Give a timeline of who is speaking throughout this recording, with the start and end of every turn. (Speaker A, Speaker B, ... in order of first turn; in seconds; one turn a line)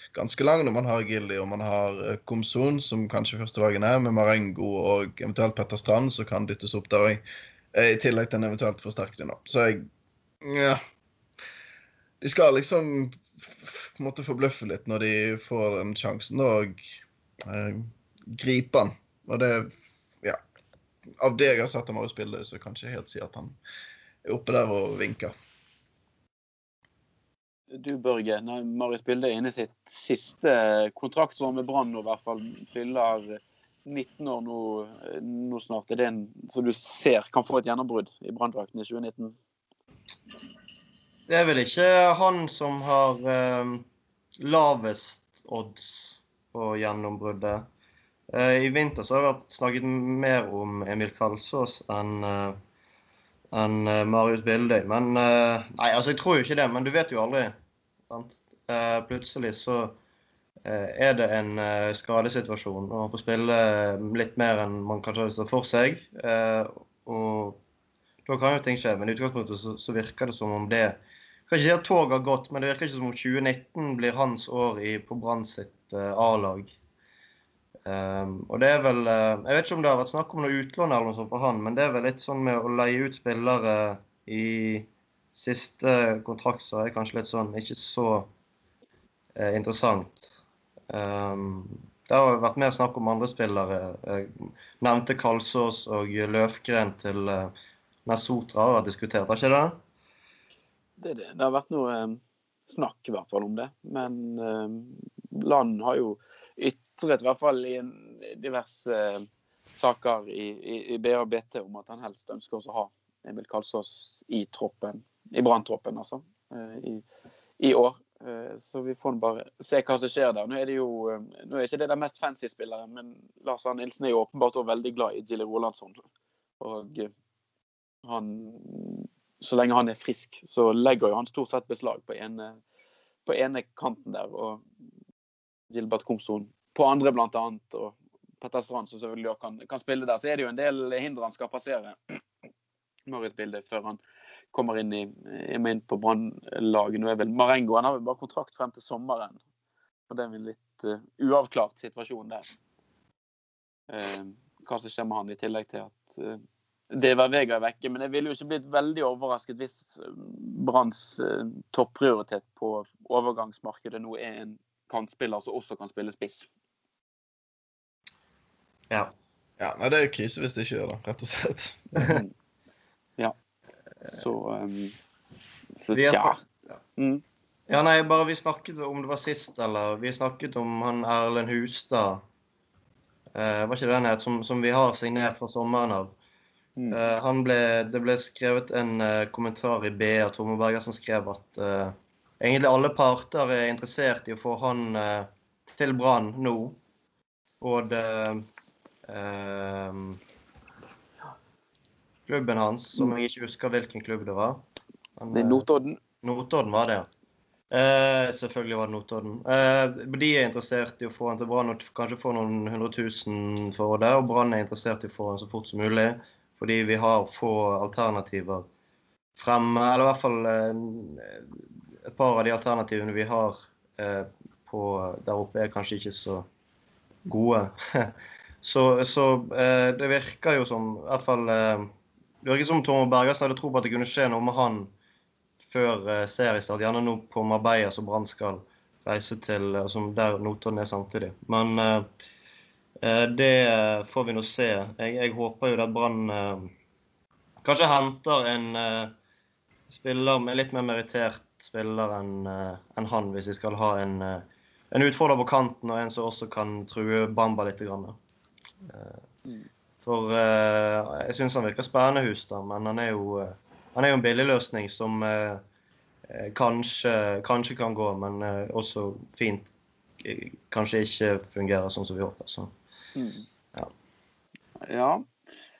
Speaker A: 0.1-9.9
Speaker A: 10.4-10.8
Speaker A: 12.2-20.4
Speaker A: 21.2-23.6
Speaker A: 24.2-25.3
Speaker B: 27.7-39.4
Speaker C: 41.3-43.8
Speaker C: 44.4-47.6
Speaker C: 48.3-52.6
Speaker C: 53.5-57.5
Speaker C: 58.1-60.0
Speaker C: 60.6-67.6
Speaker C: 68.2-76.8
Speaker C: 77.8-88.3
Speaker C: 89.4-90.3
Speaker C: 90.9-97.5
Speaker C: 98.0-99.8
Speaker B: 101.0-117.0
Speaker B: 117.6-126.0
Speaker B: 126.6-127.1
Speaker B: 128.0-132.6
Speaker B: 133.2-134.6
Speaker B: 135.7-142.2
Speaker B: 143.1-144.0
Speaker B: 144.5-149.4
Speaker B: 150.1-152.5
Speaker B: 153.9-166.5
Speaker A: 169.6-172.1
Speaker B: 172.0-172.3
Speaker B: 174.0-174.9
Speaker B: 175.8-176.4
Speaker C: 175.9-176.3
Speaker B: 177.0-177.2
Speaker C: 177.7-182.2
Speaker C: 183.3-186.1
Speaker C: 186.9-196.8
Speaker C: 197.6-198.5
Speaker C: 199.1-200.2
Speaker C: 202.3-204.6
Speaker C: 205.2-205.7
Speaker B: 205.3-206.0
Speaker C: 206.2-207.1
Speaker C: 207.7-218.6
Speaker C: 219.4-221.5
Speaker C: 222.0-226.5
Speaker C: 227.2-231.9
Speaker C: 232.4-234.9
Speaker C: 235.6-242.1
Speaker C: 243.0-246.7
Speaker C: 247.6-249.1
Speaker C: 249.9-258.1
Speaker C: 258.9-259.2
Speaker C: 260.0-265.6
Speaker C: 266.3-269.7
Speaker C: 270.2-272.7
Speaker B: 273.1-273.4
Speaker B: 274.8-275.3